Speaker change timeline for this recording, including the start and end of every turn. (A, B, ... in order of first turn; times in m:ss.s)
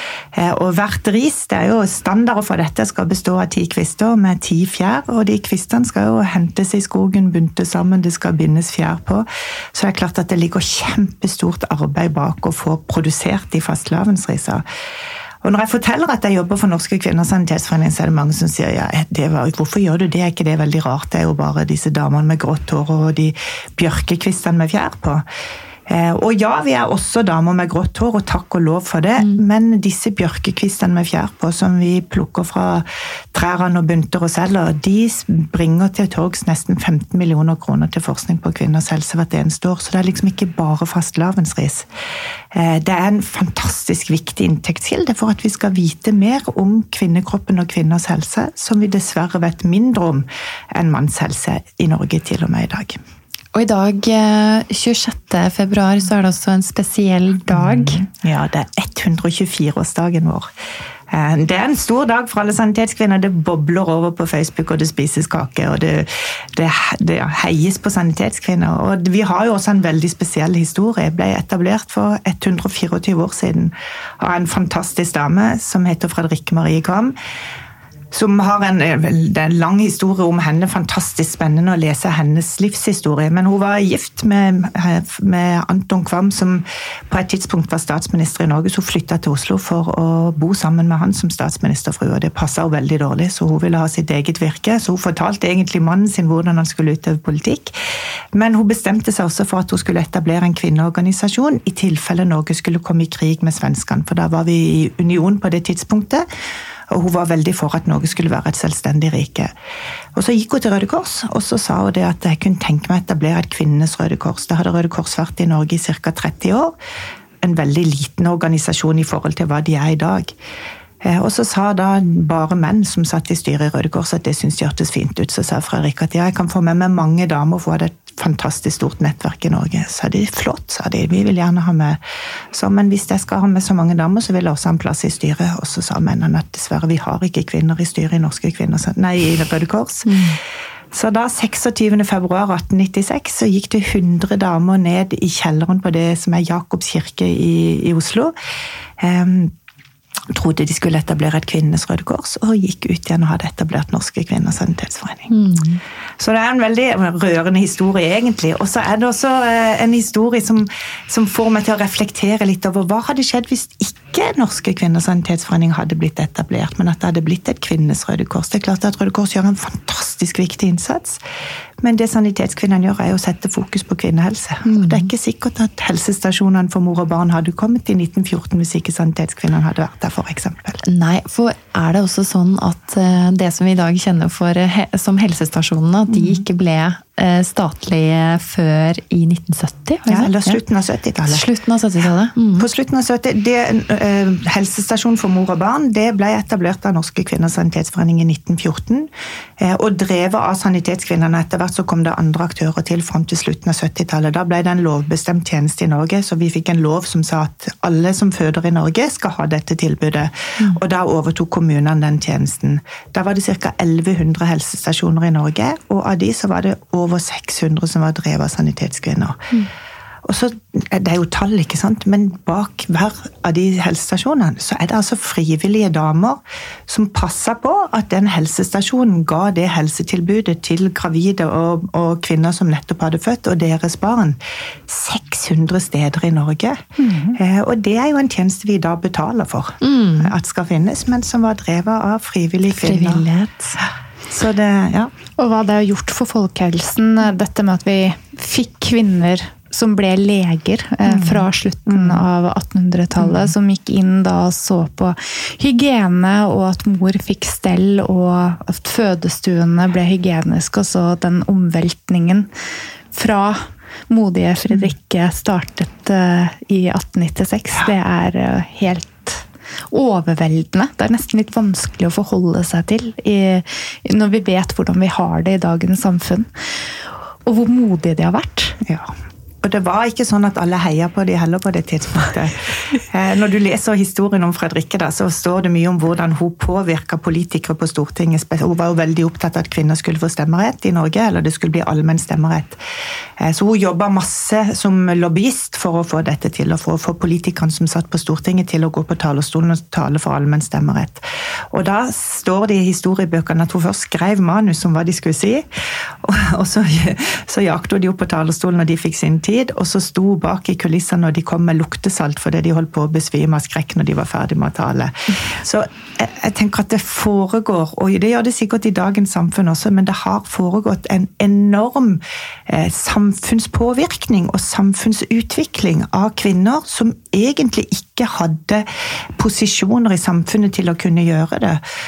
0:00.3-0:14.6 A
0:15.4-0:25.2 A
0:25.9-0:41.9 A
0:42.5-0:53.0 A
0:53.5-0:58.0 B
0:57.5-1:00.5 A
1:01.1-1:17.1 A
1:18.1-1:46.2 A
1:46.9-1:49.5 A
1:50.1-1:56.7 A
1:57.4-2:00.3 A
2:01.0-2:12.0 A
2:12.5-2:20.2 A
2:20.0-2:20.4 B
2:20.9-2:28.3 A
2:29.0-2:29.5 A
2:30.3-2:35.3 A
2:35.3-2:35.8 B
2:36.2-2:51.2 A
2:51.8-3:00.8 A
2:54.6-2:55.1 B
3:00.8-3:10.6 B
3:06.1-3:06.4 A
3:10.1-3:11.5 A
3:11.2-3:12.7 B
3:12.6-3:39.5 A
3:40.2-4:03.3 A
3:57.0-3:57.4 C
3:59.8-4:00.3 B
4:02.7-4:03.8 B
4:04.3-4:05.1 A
4:05.4-4:22.5 C
4:11.1-4:12.2 A
4:13.2-4:13.5 A
4:23.1-4:36.5 C
4:37.4-4:38.8 C
4:38.8-4:52.8 A
4:53.4-5:31.8 A